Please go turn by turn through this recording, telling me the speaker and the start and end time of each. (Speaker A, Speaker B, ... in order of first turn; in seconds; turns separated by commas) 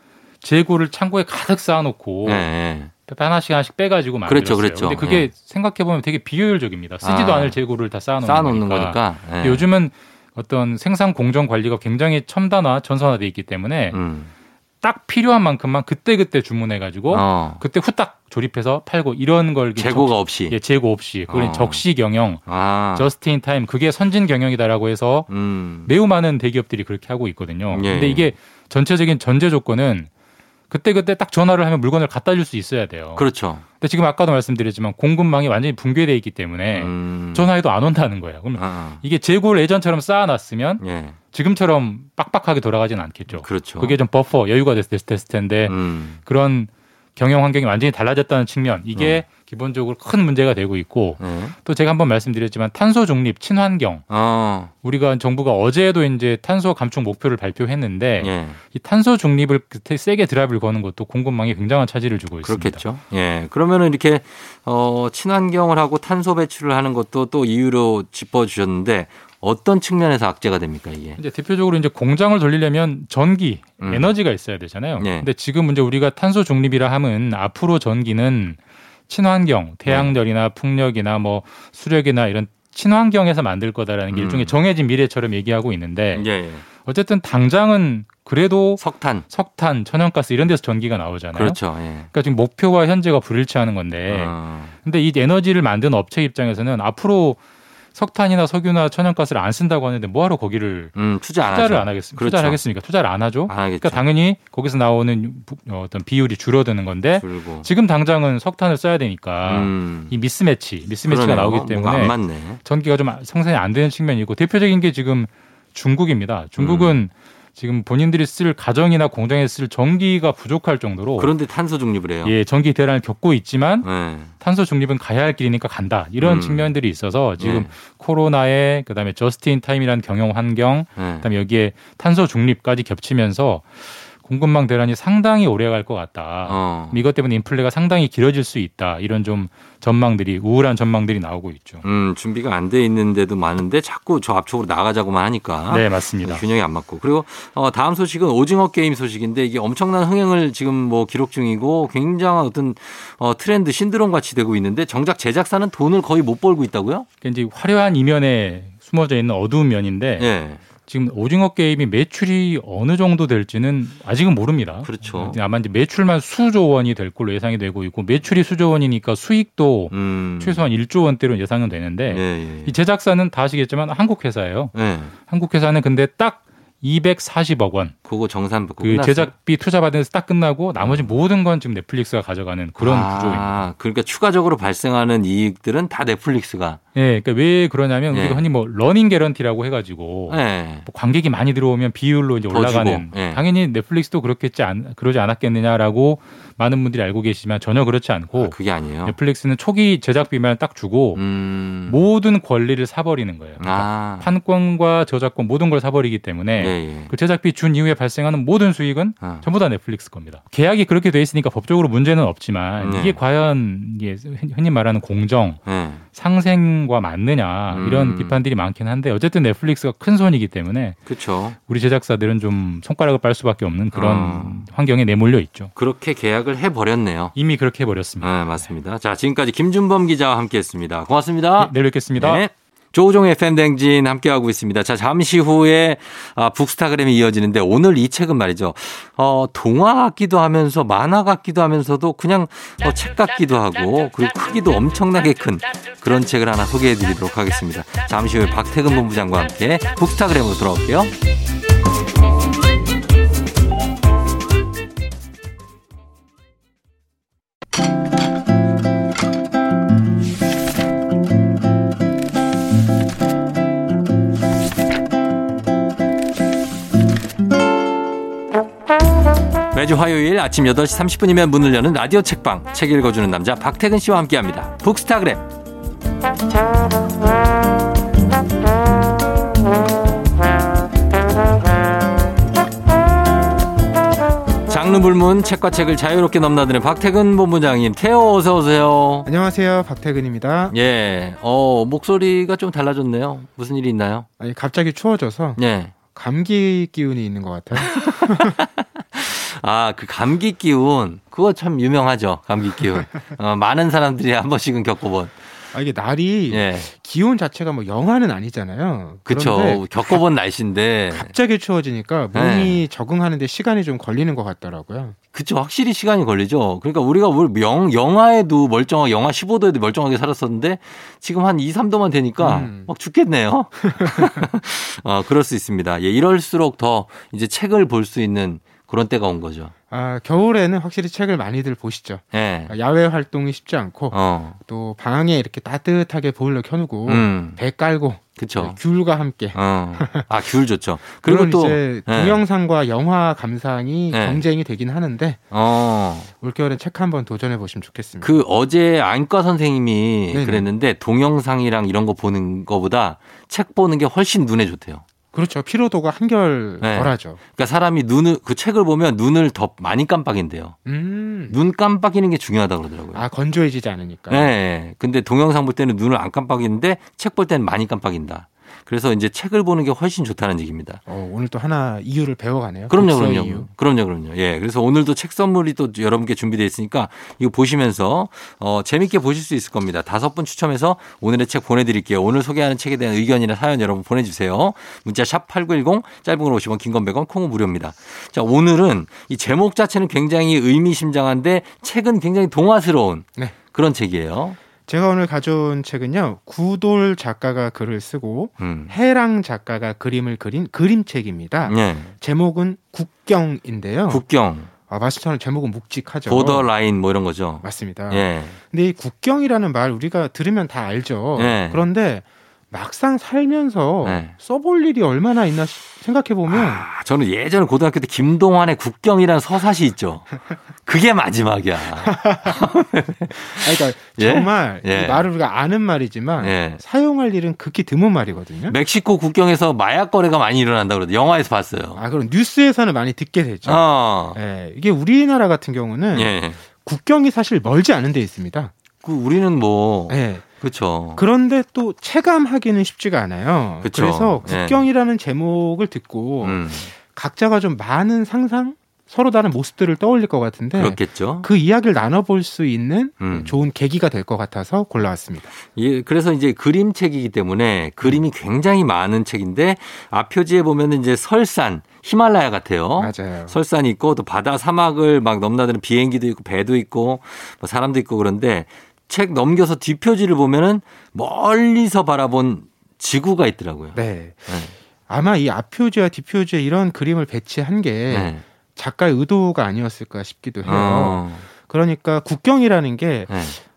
Speaker A: 0.4-2.5, Speaker B: 2.2-2.9, Speaker A: 3.0-14.0, Speaker B: 4.3-5.3, Speaker B: 7.0-7.5, Speaker B: 8.2-9.6, Speaker B: 13.9-14.3, Speaker A: 14.8-22.4, Speaker B: 17.1-17.6, Speaker B: 19.8-20.5, Speaker B: 21.3-21.8, Speaker B: 22.4-23.1, Speaker A: 22.9-25.3, Speaker B: 25.3-25.9, Speaker A: 25.9-30.1, Speaker B: 27.7-28.3, Speaker A: 30.7-33.2, Speaker B: 33.1-33.6, Speaker A: 33.8-54.0, Speaker B: 36.8-37.5, Speaker B: 38.6-39.0, Speaker B: 40.8-41.2, Speaker B: 43.4-44.0, Speaker B: 45.7-46.2, Speaker B: 49.0-49.2, Speaker B: 51.2-51.5, Speaker B: 54.1-54.7, Speaker A: 54.8-62.8, Speaker B: 58.2-58.6, Speaker B: 62.4-71.2, Speaker A: 71.2-91.6, Speaker B: 73.8-74.1, Speaker B: 75.0-75.2, Speaker B: 84.1-84.5, Speaker B: 86.1-86.7, Speaker B: 88.8-89.2, Speaker B: 91.3-92.1, Speaker A: 92.1-97.4, Speaker B: 94.1-94.8, Speaker A: 97.9-121.3, Speaker B: 100.9-102.6, Speaker B: 103.5-104.0, Speaker B: 107.2-107.7, Speaker B: 109.5-110.1, Speaker B: 111.0-112.6, Speaker B: 116.6-117.0, Speaker B: 121.2-122.3, Speaker A: 122.2-123.9, Speaker B: 123.8-124.3, Speaker A: 124.4-141.8, Speaker B: 126.2-126.7, Speaker B: 127.4-127.7, Speaker B: 130.9-131.2, Speaker B: 136.4-137.0, Speaker B: 141.8-157.1, Speaker A: 145.7-146.4, Speaker A: 157.2-177.9, Speaker B: 160.2-160.6, Speaker B: 164.8-165.4, Speaker B: 169.9-170.6, Speaker B: 172.1-172.7, Speaker B: 174.7-175.1, Speaker B: 178.0-179.3, Speaker A: 178.8-183.7, Speaker B: 180.8-181.1, Speaker B: 182.8-186.8, Speaker A: 186.9-198.5, Speaker B: 188.1-188.4, Speaker B: 190.3-190.9, Speaker B: 192.5-193.4, Speaker B: 198.4-199.1, Speaker A: 199.0-201.2, Speaker B: 201.2-202.0, Speaker A: 201.9-215.6, Speaker B: 203.6-204.3, Speaker B: 206.6-207.1, Speaker B: 209.2-209.4, Speaker B: 212.8-213.2, Speaker B: 215.6-216.1, Speaker A: 216.1-221.0, Speaker B: 217.7-218.3, Speaker B: 221.1-221.6, Speaker A: 221.6-225.7, Speaker B: 223.9-224.7, Speaker B: 225.7-227.3, Speaker A: 227.3-228.7, Speaker B: 228.2-251.1, Speaker A: 231.6-232.4, Speaker B: 269.7-275.4, Speaker B: 284.7-289.3, Speaker C: 289.2-290.7, Speaker B: 290.7-294.3, Speaker C: 294.4-298.6, Speaker B: 295.6-295.9, Speaker B: 297.8-305.4, Speaker C: 302.9-303.2, Speaker C: 305.7-310.2, Speaker B: 306.5-306.9, Speaker B: 309.2-311.3, Speaker C: 311.1-315.1, Speaker B: 312.3-312.8, Speaker B: 315.3-329.7, Speaker C: 322.4-322.9, Speaker C: 323.8-324.4, Speaker C: 329.9-340.3, Speaker B: 332.3-332.7, Speaker B: 334.1-334.6, Speaker B: 337.1-337.6, Speaker B: 338.4-338.8, Speaker B: 339.5-342.4, Speaker C: 341.2-345.4, Speaker B: 344.1-344.4, Speaker B: 345.5-346.3, Speaker C: 346.4-348.3, Speaker B: 348.2-355.0, Speaker C: 350.3-350.7, Speaker C: 355.3-357.4, Speaker B: 356.8-360.8, Speaker C: 360.8-361.6, Speaker B: 361.5-363.2, Speaker C: 363.1-364.5, Speaker B: 364.3-371.0, Speaker C: 371.1-373.7, Speaker B: 372.9-394.6, Speaker C: 394.9-404.2, Speaker B: 398.6-398.9, Speaker B: 401.6-402.1, Speaker B: 404.1-404.7, Speaker C: 404.9-406.7, Speaker B: 406.2-408.6, Speaker C: 407.6-416.8, Speaker B: 411.4-411.8, Speaker B: 414.0-414.3, Speaker B: 416.5-420.3, Speaker B: 420.8-425.3, Speaker C: 421.9-422.7, Speaker C: 423.4-428.8, Speaker B: 426.4-426.8, Speaker B: 428.7-432.0, Speaker C: 431.9-438.7, Speaker B: 433.6-434.4, Speaker B: 436.1-436.6, Speaker B: 439.0-441.2, Speaker C: 440.1-440.4, Speaker C: 441.1-455.5, Speaker B: 443.8-444.9, Speaker B: 446.4-446.9, Speaker B: 450.7-451.5, Speaker B: 453.2-453.6, Speaker B: 455.6-474.0, Speaker C: 463.0-463.5, Speaker C: 473.9-483.5, Speaker B: 474.5-474.7, Speaker B: 478.1-478.4, Speaker B: 480.6-481.4, Speaker B: 483.3-483.6